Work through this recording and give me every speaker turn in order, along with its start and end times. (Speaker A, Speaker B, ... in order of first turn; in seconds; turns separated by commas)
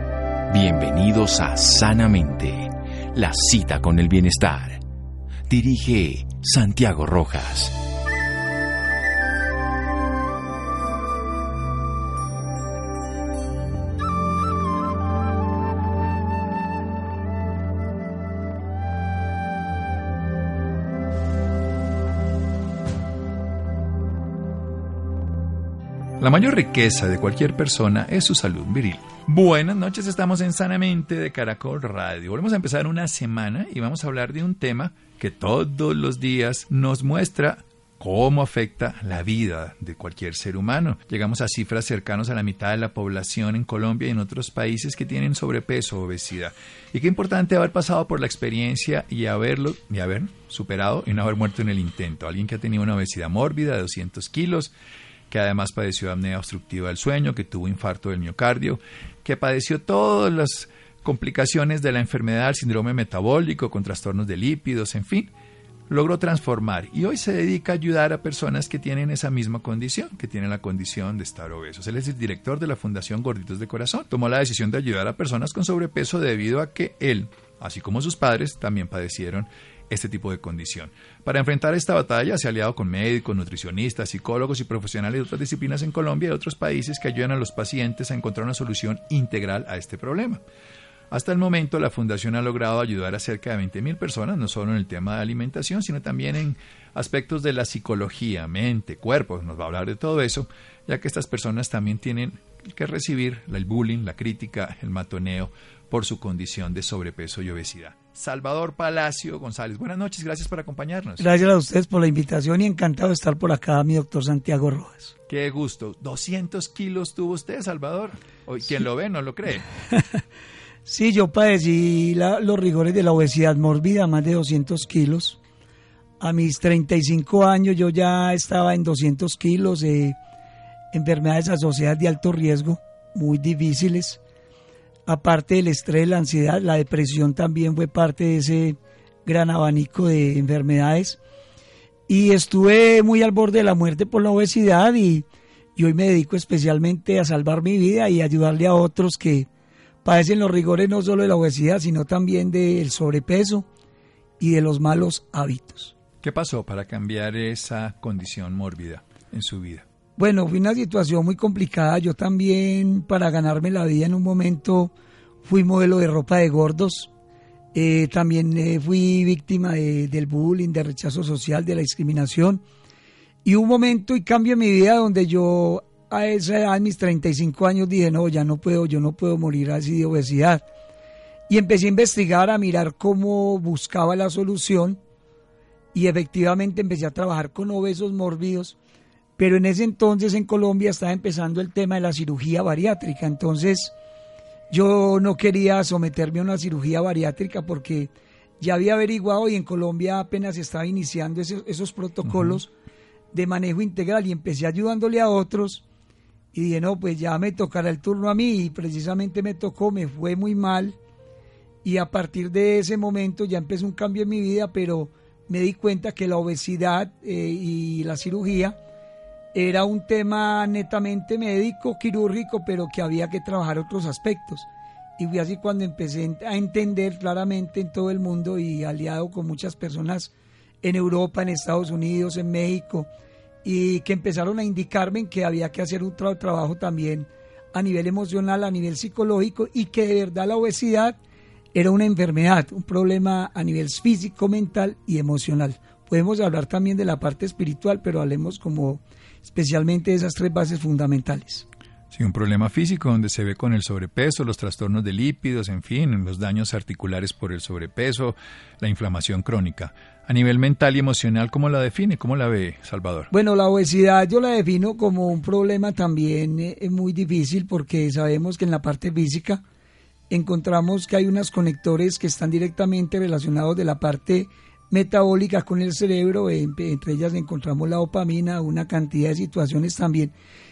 Speaker A: 0.5-4.8, Speaker A: 5.5-7.8, Speaker B: 26.2-54.7, Speaker B: 55.3-65.3, Speaker B: 65.9-90.4, Speaker B: 91.1-111.3, Speaker C: 111.2-115.1, Speaker B: 115.3-119.7, Speaker C: 120.9-125.4, Speaker C: 126.2-130.2, Speaker C: 130.9-134.2, Speaker C: 135.1-141.2, Speaker C: 142.1-149.5, Speaker C: 150.0-153.7, Speaker C: 154.4-155.9, Speaker B: 156.2-159.8, Speaker C: 160.2-164.9, Speaker C: 165.4-167.1, Speaker C: 167.7-172.6, Speaker C: 173.4-180.6, Speaker C: 181.5-185.0, Speaker C: 185.9-188.8, Speaker C: 189.4-193.9, Speaker C: 194.7-202.7, Speaker B: 202.3-202.6, Speaker C: 203.3-205.8, Speaker C: 206.5-211.0, Speaker C: 211.8-218.8, Speaker C: 219.5-224.7, Speaker C: 225.2-233.1, Speaker C: 233.6-241.2, Speaker C: 241.7-251.7, Speaker B: 252.1-263.3, Speaker C: 263.3-269.6, Speaker C: 270.3-280.3